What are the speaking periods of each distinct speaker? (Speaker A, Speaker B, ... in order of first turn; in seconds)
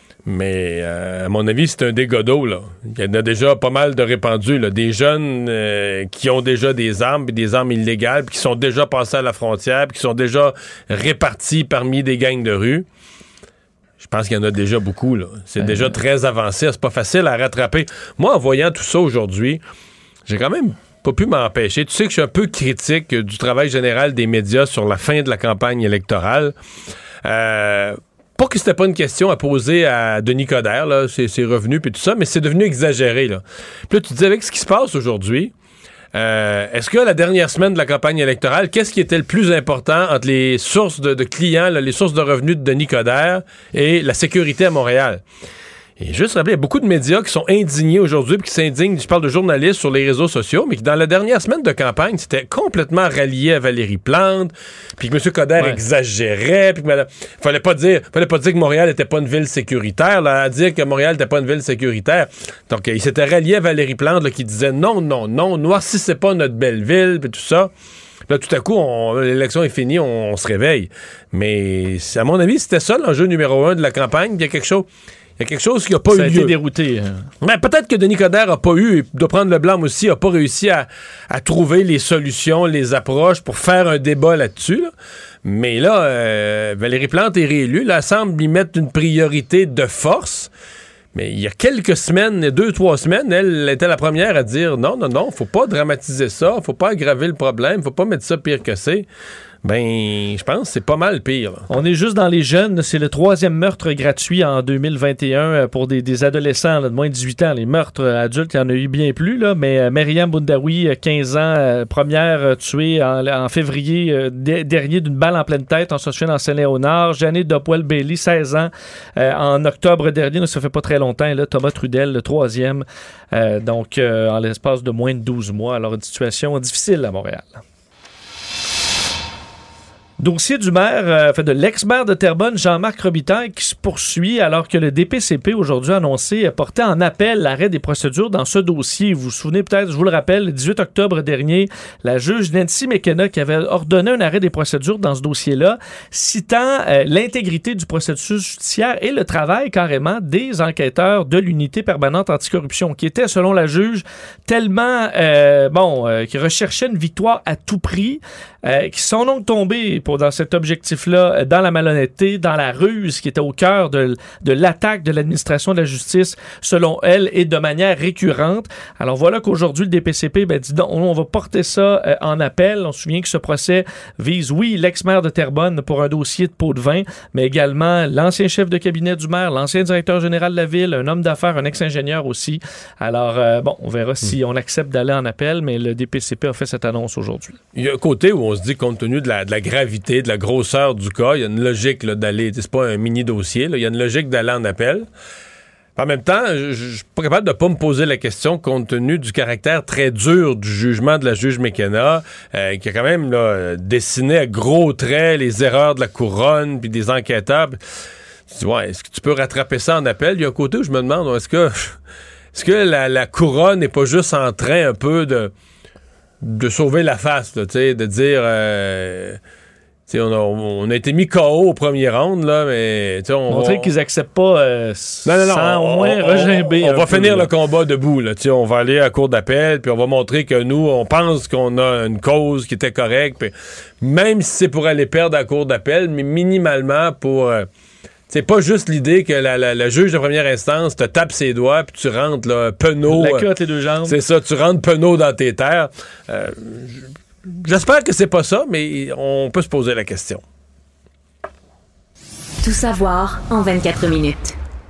Speaker A: 0.2-12.9, 14.0-19.6, 20.3-26.6, 27.2-35.5, 36.1-45.2, 46.0-67.7, 68.3-74.9, 75.4-76.5, 77.4-84.9, 85.4-90.5, 91.1-99.1, 99.6-101.7, 187.8-195.1, 196.0-207.8, 208.5-212.0, 212.5-215.5, 216.4-219.4, 220.1-223.9, 225.2-237.7, 238.3-243.5, 244.1-250.4
Speaker B: 76.1-77.3, 101.7-127.6, 130.2-187.6, 223.5-227.5, 243.1-244.2
Speaker C: 252.6-254.6